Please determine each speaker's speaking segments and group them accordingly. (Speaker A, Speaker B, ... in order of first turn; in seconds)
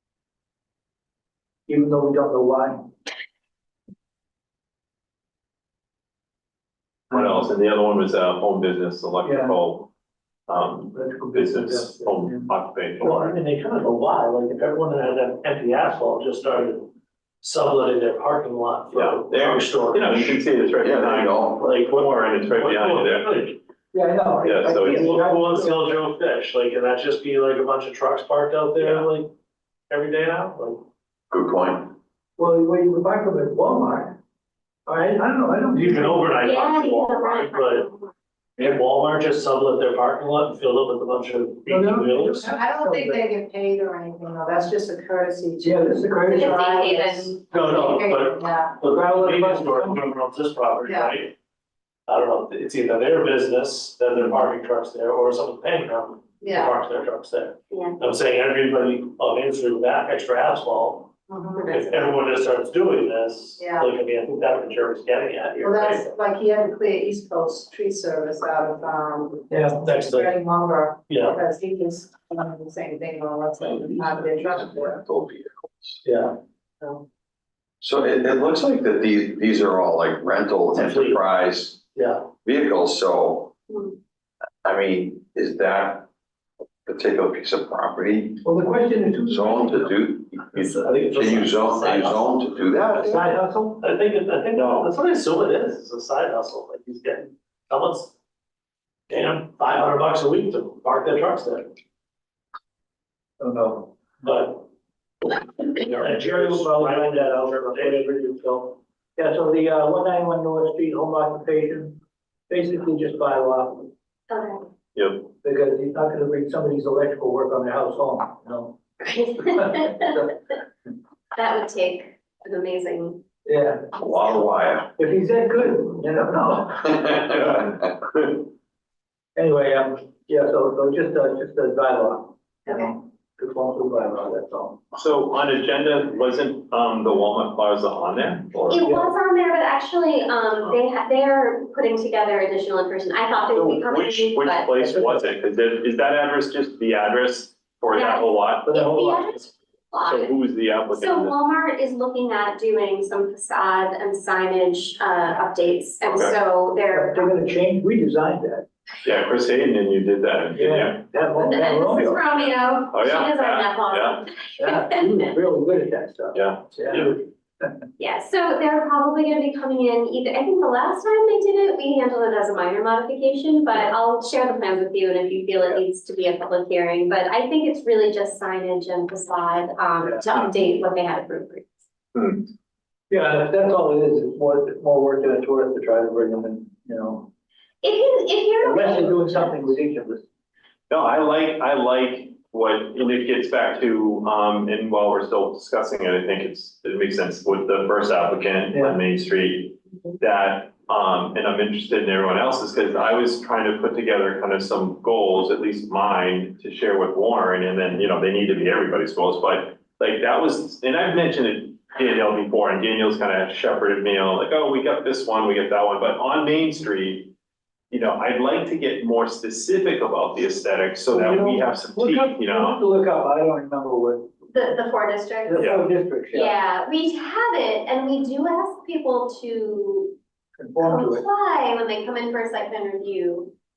Speaker A: 1.7-2.9, 7.1-7.5, 9.2-9.6, 10.9-12.5, 23.9-25.8, 32.4-34.2, 34.9-36.3, 41.7-43.3, 45.6-46.6, 48.8-50.1, 69.5-69.8, 88.4-90.0, 92.9-93.8, 103.4-103.9, 105.8-112.0, 112.5-113.9, 115.4-118.8, 123.5-123.9, 125.0-127.8, 129.4-134.8, 138.8-139.1, 144.8-145.2, 148.7-149.2, 156.9-158.7, 160.6-162.2, 164.6-167.2, 183.1-187.3, 188.6-190.2, 198.7-199.0, 221.1-224.3, 225.4-226.5, 230.6-231.2
Speaker B: 7.1-9.9, 10.5-13.4, 18.9-23.5, 24.4-25.1, 28.8-29.1, 94.6-94.9, 115.0-115.3, 134.9-138.8, 143.5-149.5, 150.0-151.4, 156.0-156.4, 159.0-161.2, 162.9-164.2, 166.3-166.8, 182.2-182.4, 190.9-217.3, 217.9-222.8, 225.6-225.8
Speaker C: 13.0-16.9, 17.4-20.4, 21.6-23.6, 24.7-29.3, 29.9-30.8, 35.7-37.9, 38.6-42.6, 47.5-51.3, 52.1-61.1, 61.7-66.0, 69.7-70.3, 71.1-71.4, 76.0-76.4, 80.8-81.2, 82.0-82.2, 90.6-92.3, 93.8-98.1, 99.1-101.7, 104.2-104.7, 105.9-108.1, 166.9-167.2
Speaker D: 20.8-21.6, 31.3-31.9, 73.6-76.0, 77.8-81.8, 82.4-83.5, 84.6-86.1, 86.9-88.4, 89.2-93.3, 124.0-124.9
Speaker E: 36.4-38.1, 46.4-47.4, 57.7-58.0, 61.5-62.0, 114.3-114.6, 119.0-120.3, 121.3-123.2, 138.7-144.8, 147.9-150.3, 150.9-157.3, 161.4-165.3, 168.0-181.7, 187.8-189.7, 224.5-225.7, 226.3-230.2, 230.8-233.5
Speaker F: 42.4-48.8, 50.8-51.1, 56.4-56.8, 61.3-61.8, 63.6-63.9, 65.6-75.0